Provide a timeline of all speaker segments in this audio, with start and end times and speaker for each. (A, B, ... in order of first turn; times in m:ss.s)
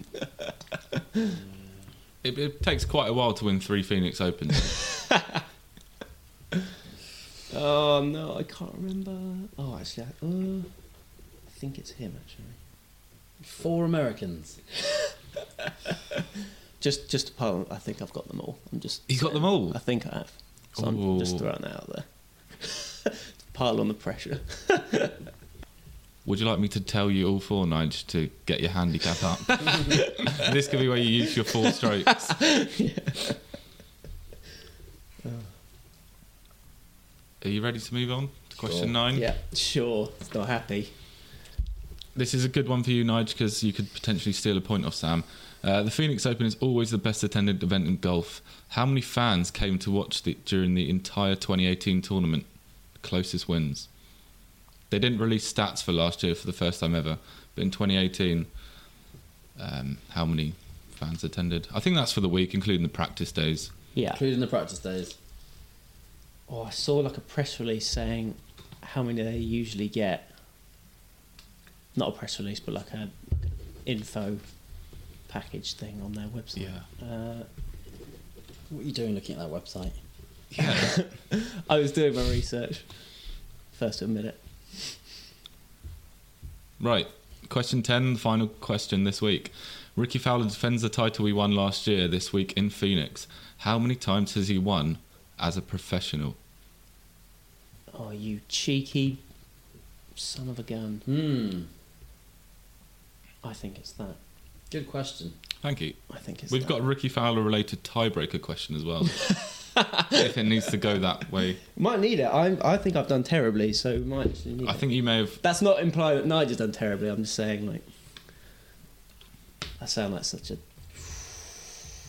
0:00.2-0:01.4 A
0:02.2-0:04.8 B
0:04.8-0:05.4 A
0:07.5-0:10.7 A
0:11.5-0:12.6 A
0:13.4-0:14.6 C
0:16.8-0:25.2 A
0:19.1-0:19.8 B
0:20.8-0:21.4 B
0:26.2-0:32.4 B
0:29.5-0:30.5 A
0:31.2-0:33.4 A
0:35.2-0:35.5 A
0:37.4-0:39.3 B
0:38.6-0:38.9 C
0:39.1-0:40.9 A
0:42.2-0:52.5 B
0:53.0-0:53.9 B
0:54.9-0:58.5 B
0:59.6-1:03.7 B
1:04.0-1:04.2 A
1:04.1-1:05.2 C
1:06.5-1:10.3 A
1:12.0-1:14.4 A
1:15.3-1:17.5 A
1:16.6-1:16.9 B
1:18.7-1:20.0 C
1:20.5-1:21.0 B
1:20.6-1:23.0 A
1:23.7-1:25.0 A
1:26.8-1:36.4 B
1:37.9-1:39.2 A
1:40.2-1:41.1 A
1:41.1-1:41.7 C
1:43.4-1:44.2 A
1:44.7-1:45.4 C
1:45.6-1:49.3 B
1:46.1-1:46.8 A
1:49.2-1:50.3 A
1:50.1-1:51.6 B
1:51.7-1:54.8 A
1:54.6-1:55.4 B
1:55.4-1:57.8 A
1:59.8-2:01.1 A